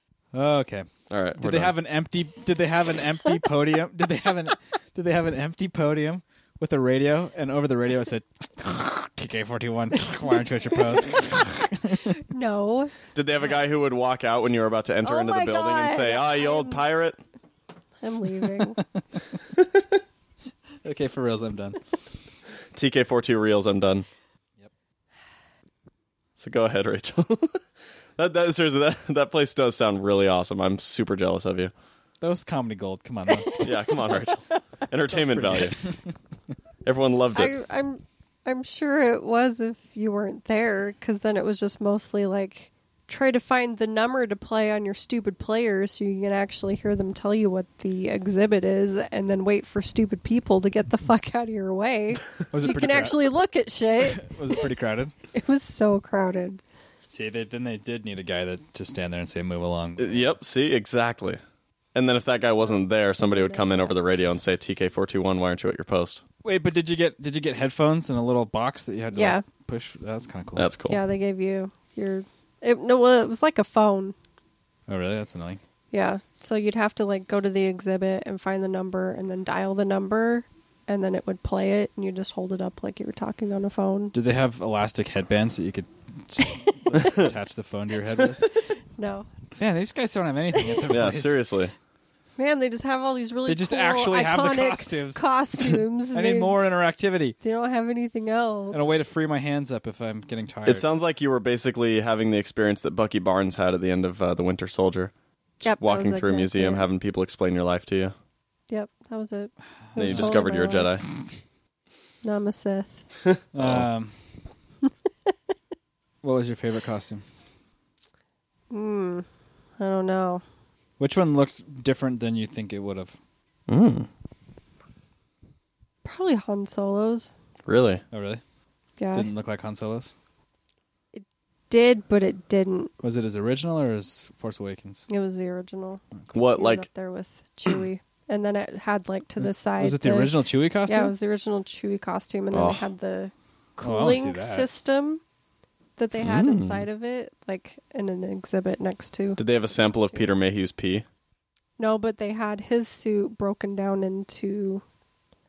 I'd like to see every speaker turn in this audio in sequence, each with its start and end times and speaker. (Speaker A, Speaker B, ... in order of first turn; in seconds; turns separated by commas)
Speaker A: 0.3-12.2, Speaker B: 1.1-1.7, Speaker C: 12.2-12.9, Speaker B: 13.1-17.2, Speaker C: 15.0-16.8, Speaker C: 18.0-18.8, Speaker A: 18.6-19.0, Speaker A: 20.8-21.8, Speaker B: 22.7-24.1, Speaker B: 26.4-27.6, Speaker B: 28.2-31.7, Speaker A: 32.2-33.7, Speaker C: 33.4-33.7, Speaker B: 33.6-35.8, Speaker A: 35.1-35.9, Speaker B: 36.8-37.5, Speaker C: 37.3-54.4, Speaker A: 52.5-53.3, Speaker A: 54.0-55.1, Speaker C: 55.3-56.6, Speaker A: 57.1-60.3, Speaker B: 60.0-61.4, Speaker B: 61.9-66.2, Speaker C: 63.2-63.9, Speaker A: 66.4-70.7, Speaker C: 69.1-69.4, Speaker B: 70.5-71.0, Speaker C: 70.9-74.1, Speaker A: 74.9-75.6, Speaker C: 75.9-84.1, Speaker A: 84.1-88.5, Speaker B: 86.9-87.3, Speaker C: 89.0-89.3, Speaker A: 89.6-91.4, Speaker B: 90.9-91.7, Speaker C: 92.4-96.6, Speaker A: 93.5-97.3, Speaker C: 97.4-99.0, Speaker A: 98.7-100.8, Speaker B: 100.7-105.1, Speaker C: 105.6-106.9, Speaker B: 105.6-108.1, Speaker C: 108.7-110.9, Speaker A: 109.9-110.4, Speaker B: 110.0-111.0, Speaker C: 112.2-113.0, Speaker A: 113.5-114.2, Speaker B: 113.6-113.8, Speaker A: 116.2-117.2, Speaker C: 118.7-119.2, Speaker C: 119.8-120.4, Speaker A: 121.0-123.2, Speaker B: 123.7-124.1, Speaker C: 126.0-127.3, Speaker B: 127.7-128.0, Speaker A: 128.1-128.4, Speaker C: 129.0-129.3, Speaker A: 129.1-130.1, Speaker C: 131.1-132.9, Speaker A: 133.0-135.1, Speaker C: 135.1-145.2, Speaker B: 136.3-136.8, Speaker A: 139.4-141.1, Speaker B: 142.5-142.9, Speaker A: 143.8-144.7, Speaker C: 146.0-149.4, Speaker B: 146.2-146.8, Speaker B: 149.4-151.1, Speaker C: 151.8-154.8